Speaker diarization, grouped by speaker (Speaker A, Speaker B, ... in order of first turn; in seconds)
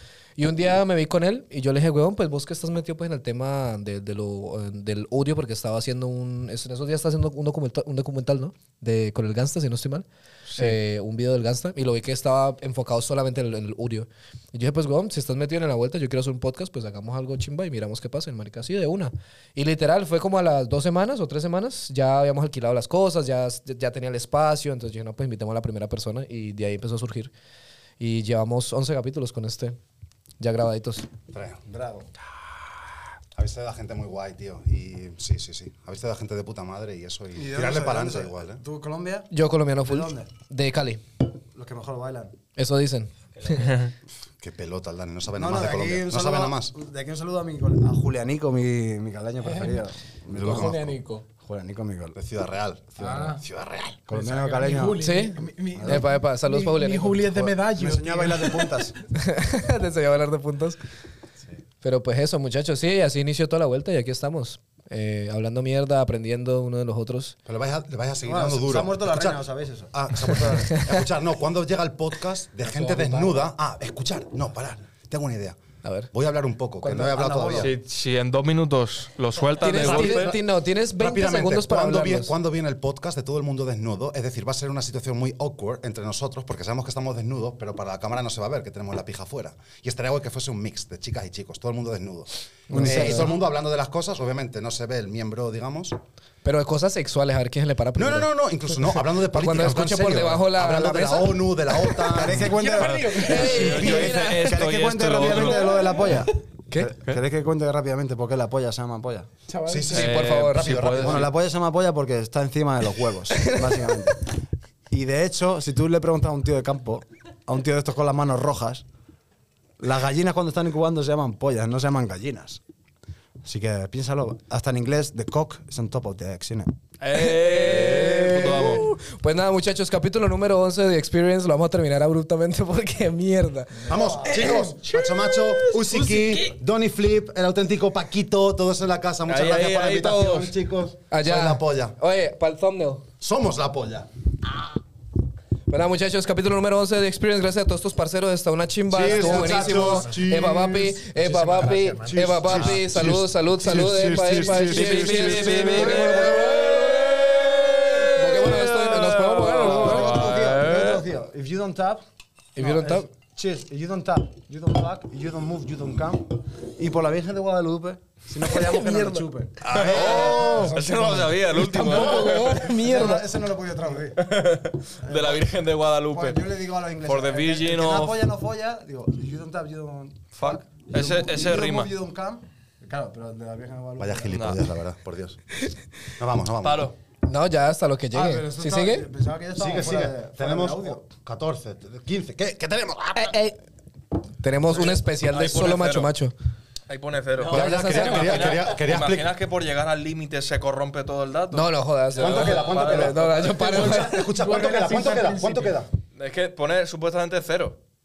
Speaker A: 0.4-27.3, 28.0-29.8, 30.4-31.1, 39.3-41.0, 42.5-43.8, 55.0-57.6, 59.1-60.8, 61.8-67.3, 70.4-71.0, 75.8-76.1, 79.6-82.3, 92.7-93.4, 96.4-102.1, 103.2-104.6, 109.9-110.8, 113.3-113.9, 127.1-133.8, 141.1-143.1, 145.7-160.2, 162.6-163.1, 168.5-169.2, 171.5-173.3, 187.2-189.1, 193.2-193.5, 194.4-196.3, 197.5-198.6, 201.5-204.3
Speaker B: 10.5-10.8, 43.5-43.9, 77.6-80.3, 102.3-105.9, 109.9-111.3, 127.0-128.8, 139.2-140.5, 154.6-161.0, 169.6-172.6, 174.2-176.4, 177.0-178.2, 180.3-181.9, 184.3-184.6, 186.6-186.9, 194.9-196.1, 196.9-203.7, 206.1-207.8
Speaker C: 31.3-31.6, 33.3-38.6, 44.4-46.7, 50.3-51.0, 52.1-54.0, 67.5-69.4, 69.9-75.6, 76.1-77.8, 79.6-80.4, 81.0-96.0, 98.0-102.5, 109.7-111.3, 133.9-141.9, 143.2-144.1, 148.9-151.0, 152.4-156.0, 169.6-170.6, 184.0-185.6, 186.2-186.9, 189.6-193.5, 197.5-199.3, 202.2-205.9
Speaker D: 31.6-32.1, 37.3-39.3, 39.8-40.3, 41.5-42.4, 45.4-52.2, 53.0-53.4, 54.1-55.0, 55.7-56.1, 57.7-58.9, 68.2-69.9, 72.6-73.5, 76.8-77.7, 92.7-93.3, 102.0-109.3, 111.0-114.2, 114.9-118.8, 119.8-122.6, 123.4-126.7, 133.9-134.3, 151.6-152.8, 155.7-156.4, 159.2-162.0, 162.6-174.2, 175.0-175.4, 176.0-184.3, 188.1-191.0
Speaker E: 49.4-49.8, 50.5-51.2, 53.0-53.4, 54.1-58.9, 102.5-103.9, 109.5-110.0, 133.9-136.4, 149.0-150.1, 151.1-152.3, 203.6-205.8